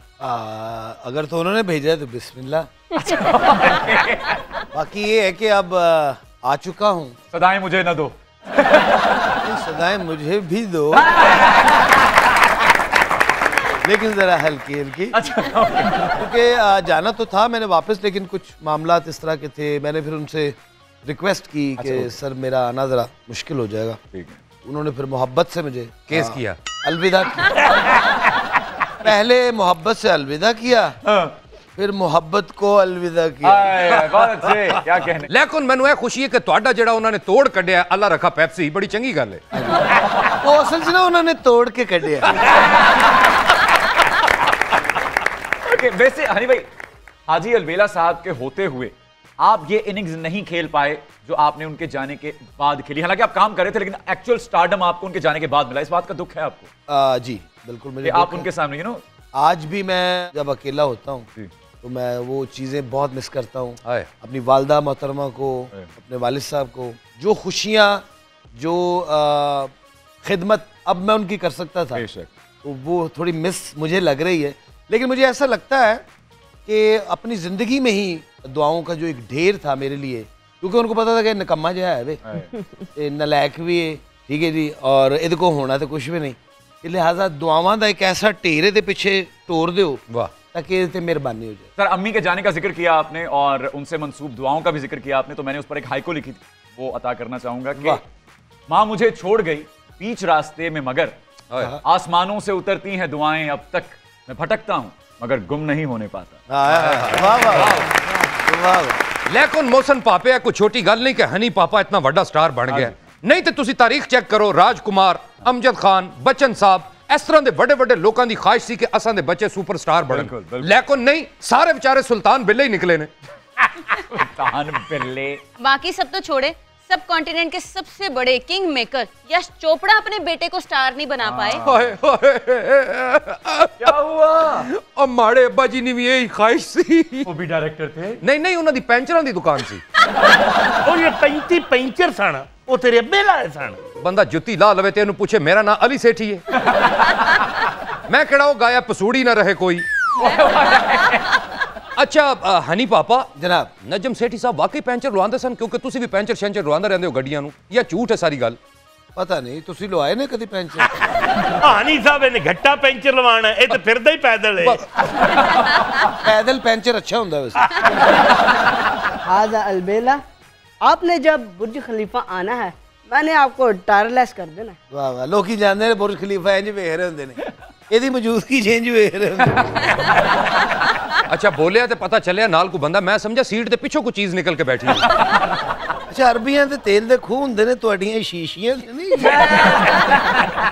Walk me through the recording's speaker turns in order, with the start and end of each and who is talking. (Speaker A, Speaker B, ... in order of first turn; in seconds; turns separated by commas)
Speaker A: 0.2-2.7, Speaker B: 3.0-4.4, Speaker A: 4.7-7.2, Speaker B: 7.3-9.4, Speaker A: 9.4-11.1, Speaker B: 10.9-11.7, Speaker A: 13.8-15.2, Speaker B: 15.1-16.2, Speaker A: 16.1-24.0, Speaker B: 21.8-22.1, Speaker B: 24.1-24.4, Speaker A: 24.6-27.6, Speaker C: 26.1-26.6, Speaker A: 29.0-30.9, Speaker B: 31.0-31.3, Speaker A: 31.8-34.0, Speaker B: 33.4-35.3, Speaker C: 35.3-39.4, Speaker A: 39.5-42.4, Speaker B: 45.6-46.7, Speaker B: 47.3-56.7, Speaker A: 56.9-58.5, Speaker B: 58.0-59.0, Speaker A: 59.3-61.3, Speaker A: 61.8-69.7, Speaker C: 63.8-64.1, Speaker A: 70.2-72.0, Speaker B: 71.9-72.3, Speaker A: 72.6-76.0, Speaker A: 76.7-82.2, Speaker B: 82.2-82.5, Speaker A: 82.9-91.7, Speaker B: 91.8-98.0, Speaker B: 98.7-101.2, Speaker C: 101.5-101.8, Speaker B: 101.8-106.4, Speaker A: 106.5-109.0, Speaker C: 106.7-108.0, Speaker C: 109.2-123.1, Speaker B: 112.7-113.0, Speaker B: 120.1-120.7, Speaker B: 124.1-125.4, Speaker D: 125.6-131.6, Speaker B: 131.2-131.9, Speaker C: 131.6-133.9, Speaker B: 133.8-134.7, Speaker C: 134.6-137.3, Speaker B: 137.2-138.2, Speaker C: 138.2-139.8, Speaker E: 140.8-143.8, Speaker C: 144.0-146.5, Speaker B: 146.7-147.1, Speaker C: 148.1-149.9, Speaker B: 150.2-151.2, Speaker C: 151.9-153.3, Speaker A: 153.3-153.7, Speaker C: 153.8-158.6, Speaker A: 159.2-160.9, Speaker E: 161.5-164.8, Speaker C: 165.2-165.6, Speaker A: 166.2-167.8, Speaker F: 169.2-170.2, Speaker F: 170.8-174.8, Speaker A: 174.9-179.9, Speaker C: 181.3-185.1, Speaker A: 186.1-189.8, Speaker B: 189.2-190.5